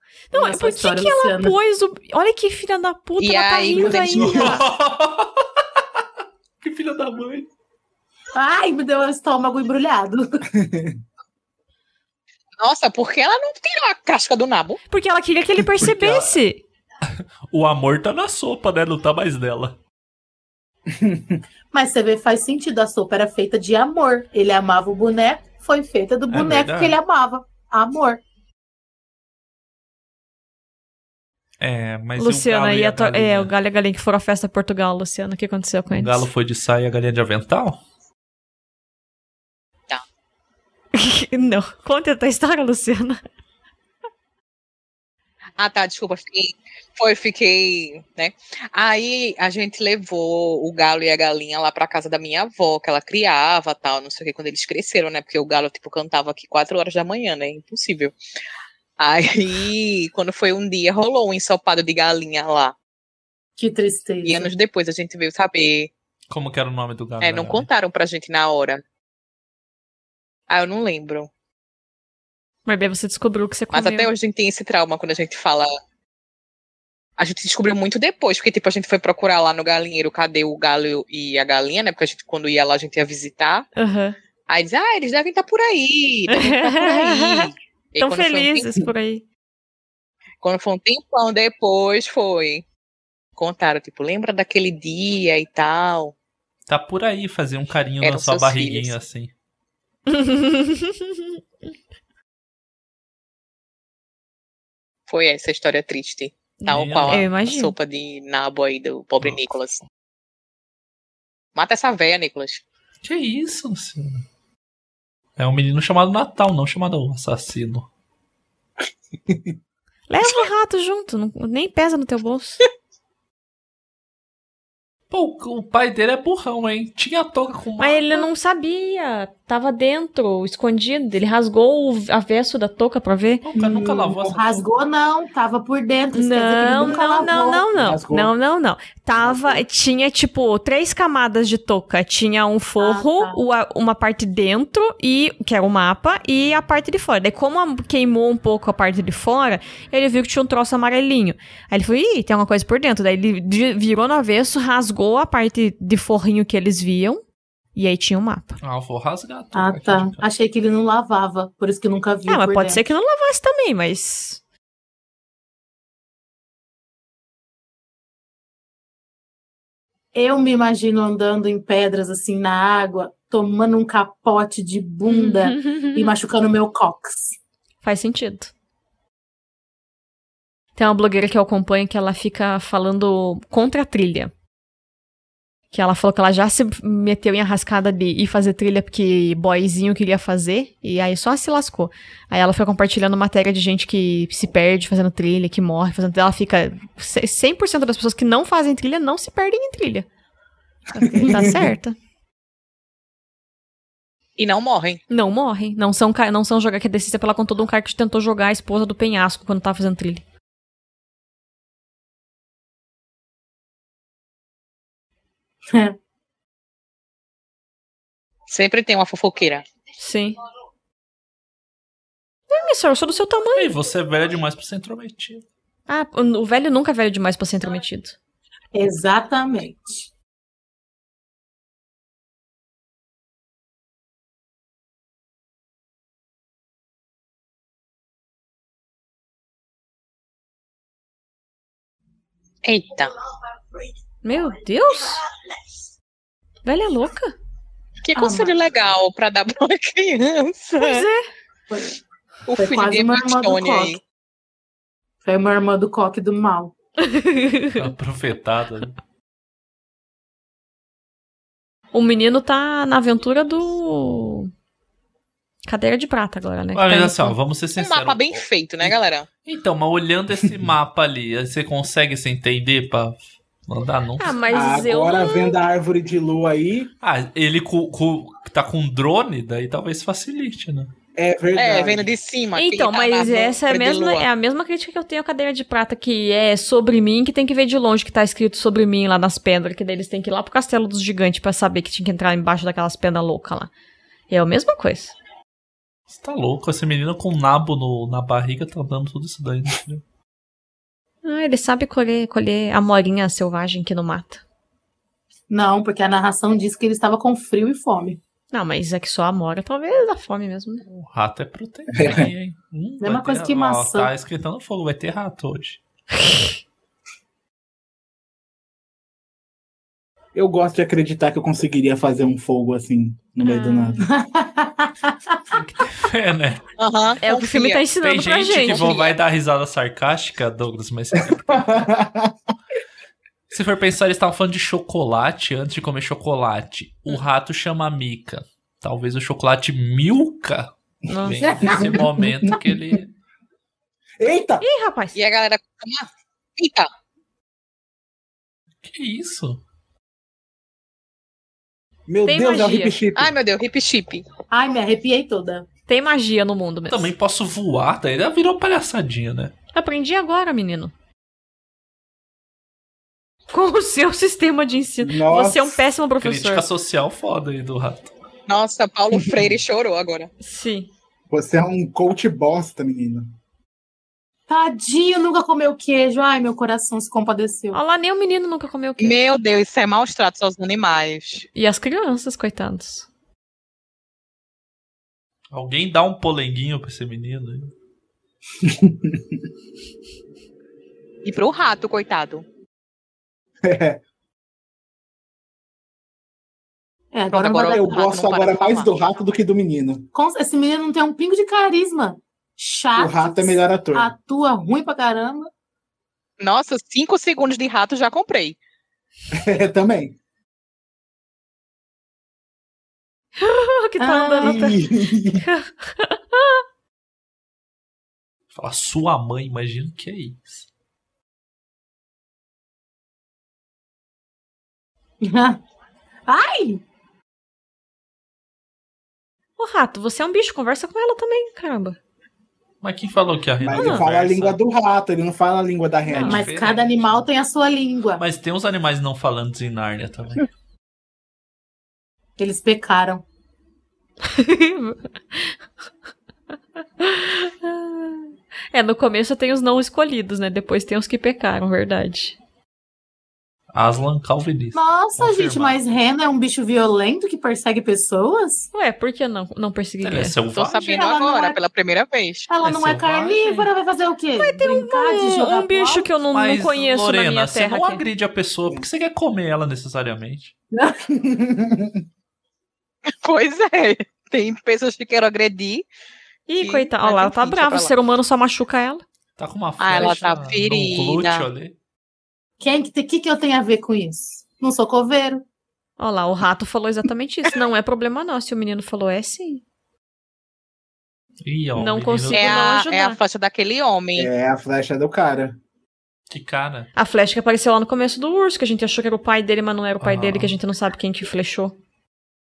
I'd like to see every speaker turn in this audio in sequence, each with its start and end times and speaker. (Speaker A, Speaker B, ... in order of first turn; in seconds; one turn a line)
Speaker A: 0.3-4.6
Speaker B: 0.3-1.6
Speaker C: 3.2-4.2
Speaker D: 3.8-4.6
Speaker E: 4.1-5.8
Speaker E: 6.6-7.5
Speaker B: 8.3-10.4
Speaker D: 10.5-11.0
Speaker C: 12.6-14.8
Speaker A: 14.9-16.6
Speaker E: 15.8-16.4
Speaker E: 17.1-19.8
Speaker D: 20.9-21.4
Speaker B: 21.7-28.2
Speaker E: 26.3-27.0
Speaker E: 31.6-33.5
Speaker A: 32.2-36.3
Speaker E: 35.9-37.8
Speaker A: 41.0-43.2
Speaker C: 45.6-58.1
Speaker C: 59.0-62.8
Speaker B: 63.6-64.5
Speaker C: 64.2-65.9
Speaker E: 66.3-67.7
Speaker C: 67.2-68.8
Speaker C: 70.5-71.3
Speaker A: 72.7-74.1
Speaker C: 73.7-75.7
Speaker C: 77.2-83.7
Speaker A: 83.8-84.2
Speaker C: 84.5-88.8
Speaker A: 86.3-89.2
Speaker C: 90.4-92.7
Speaker C: 93.4-96.2
Speaker E: 96.7-99.3
Speaker C: 98.0-99.0
Speaker A: 100.1-101.4
Speaker C: 105.1-109.8
Speaker A: 106.6-107.7
Speaker E: 106.7-107.3
Speaker C: 111.5-112.6
Speaker E: 113.0-114.2
Speaker E: 115.4-117.9
Speaker D: 119.3-119.5
Speaker A: 120.1-122.6
Speaker E: 125.1-128.3
Speaker A: 127.8-133.4
Speaker E: 133.4-134.7
Speaker B: 133.6-137.7
Speaker A: 136.1-157.2
Speaker D: 137.7-138.3
Speaker D: 139.2-139.6
Speaker B: 142.8-143.4
Speaker A: 157.8-158.6
Speaker E: 158.6-160.2
Speaker B: 159.5-162.8
Speaker A: 162.3-164.4
Speaker B: 170.1-177.4
Speaker A: 175.1-176.1
Speaker A: 177.8-178.5
Speaker A: 180.8-184.3
Speaker A: 185.7-200.1
Speaker A: 201.0-201.9
Speaker D: 201.1-201.6
Speaker B: 201.2-201.6
Speaker C: 204.4-205.0
Speaker A: 205.1-210.2
Speaker B: 215.7-216.0
Speaker C: 218.5-219.6
Speaker A: 220.0-220.4
Speaker A: 222.5-223.8
Speaker E: 223.6-225.4
Speaker A: 225.9-228.2
Speaker B: 228.7-230.1
Speaker C: 242.7-243.1
Speaker A: 244.2-245.2
Speaker A: 246.7-247.3
Speaker C: 248.0-251.1
Speaker B: 248.2-248.5
Speaker A: 250.7-251.3
Speaker B: 251.7-252.0
Speaker C: 252.5-254.0
Speaker B: 252.6-254.0
Speaker B: 255.2-256.7
Speaker A: 257.0-257.9
Speaker E: 257.8-259.0
Speaker A: 261.9-264.5
Speaker A: 265.7-267.4
Speaker E: 266.7-268.9
Speaker C: 267.8-269.3
Speaker E: 269.4-274.4
Speaker A: 274.2-275.6
Speaker D: 274.5-276.9
Speaker E: 277.0-280.9
Speaker D: 281.1-282.1
Speaker C: 281.6-284.3
Speaker A: 282.6-293.7
Speaker A: 294.3-295.1
Speaker E: 296.1-300.0
Speaker A: 301.2-304.4
Speaker B: 305.5-308.2
Speaker A: 308.5-310.8
Speaker E: 310.9-315.8
Speaker D: 311.9-312.3
Speaker B: 313.0-314.1
Speaker D: 320.4-324.1
Speaker A: 323.4-324.0
Speaker B: 324.1-325.4
Speaker E: 325.5-326.6
Speaker C: 326.8-327.8
Speaker A: 327.2-329.0
Speaker E: 328.0-331.9
Speaker C: 328.7-329.1
Speaker D: 331.5-332.3
Speaker E: 333.5-340.7
Speaker A: 341.1-341.8
Speaker E: 341.2-343.1
Speaker D: 341.7-342.7
Speaker D: 344.2-344.7
Speaker A: 344.6-345.2
Speaker C: 345.1-346.9
Speaker E: 348.8-349.6
Speaker D: 352.1-353.4
Speaker A: 352.2-353.0
Speaker C: 353.1-354.2
Speaker B: 354.5-355.7
Speaker A: 355.9-357.1
Speaker E: 356.9-359.5
Speaker A: 359.7-360.9
Speaker A: 363.5-366.7
Speaker D: 365.0-365.8
Speaker E: 366.2-368.1
Speaker C: 368.5-370.3
Speaker A: 370.4-370.9
Speaker D: 371.3-373.3
Speaker B: 374.5-377.8
Speaker A: 377.7-379.2
Speaker C: 379.0-381.5
Speaker A: 381.6-383.1
Speaker E: 385.5-387.7
Speaker D: 388.6-389.2
Speaker C: 391.2-392.4
Speaker D: 393.6-394.0
Speaker B: 397.1-398.1
Speaker C: 397.3-398.9
Speaker D: 397.6-400.1
Speaker B: 400.1-405.5
Speaker D: 402.9-404.1
Speaker C: 406.4-408.6
Speaker D: 409.3-410.2
Speaker A: 413.4-414.8
Speaker B: 414.0-414.8
Speaker D: 414.4-415.4
Speaker A: 415.4-416.6
Speaker E: 418.5-420.7
Speaker B: 425.2-425.6
Speaker B: 426.3-426.8
Speaker A: 429.6-432.0
Speaker E: 432.8-434.6
Speaker D: 433.6-436.5
Speaker A: 433.7-434.0
Speaker A: 436.1-436.4
Speaker E: 436.2-437.2
Speaker B: 436.2-438.2
Speaker E: 438.2-440.5
Speaker B: 442.4-443.2
Speaker A: 444.2-445.6
Speaker A: 447.0-452.4
Speaker E: 453.7-455.8
Speaker B: 454.7-458.7
Speaker A: 458.7-460.4
Speaker E: 460.0-461.0
Speaker C: 460.6-462.5
Speaker B: 460.9-461.6
Speaker B: 462.5-466.2
Speaker E: 462.6-463.7
Speaker A: 464.4-468.0
Speaker E: 466.3-470.5
Speaker D: 471.1-472.0
Speaker C: 473.1-475.9
Speaker A: 476.5-479.0
Speaker C: 476.6-477.9
Speaker E: 479.4-481.8
Speaker C: 479.8-481.5
Speaker B: 482.6-485.4
Speaker A: 486.0-489.6
Speaker E: 491.4-492.6
Speaker A: 491.8-493.2
Speaker C: 492.3-494.3
Speaker D: 494.2-495.6
Speaker E: 496.3-496.9
Speaker A: 497.0-501.8
Speaker E: 500.0-500.6